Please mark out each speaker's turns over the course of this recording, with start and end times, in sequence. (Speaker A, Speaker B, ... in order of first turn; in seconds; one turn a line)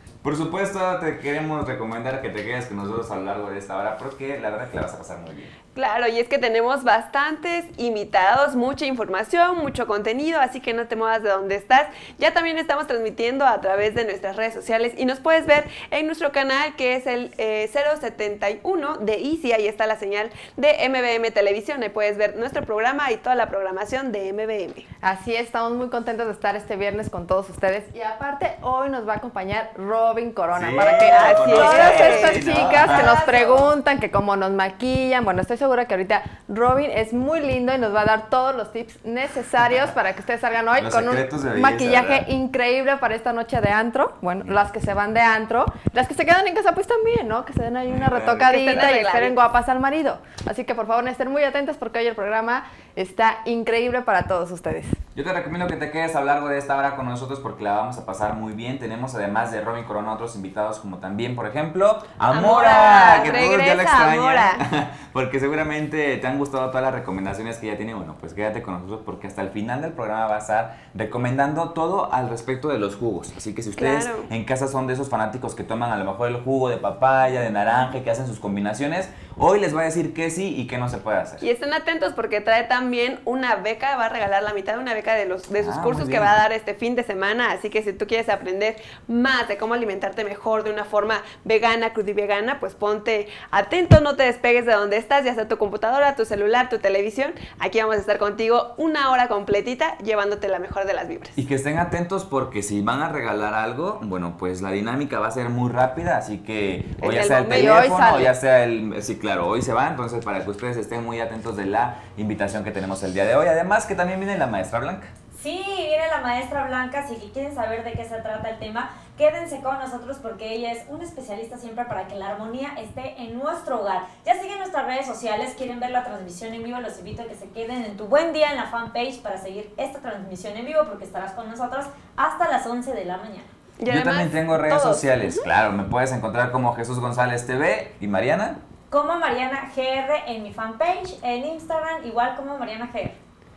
Speaker A: 0.2-5.5
Speaker B: 5.7-24.9
Speaker C: 25.0-54.9
Speaker A: 30.5-33.2
Speaker B: 31.0-33.7
Speaker A: 40.8-42.3
Speaker A: 47.9-49.0
Speaker B: 48.4-49.4
Speaker A: 55.1-81.4
Speaker B: 62.3-64.6
Speaker B: 73.8-74.3
Speaker B: 81.4-101.3
Speaker A: 85.6-86.4
Speaker A: 101.3-115.1
Speaker B: 107.0-107.8
Speaker C: 107.5-108.3
Speaker D: 115.3-133.5
Speaker B: 133.8-135.4
Speaker A: 133.9-138.6
Speaker D: 138.9-143.2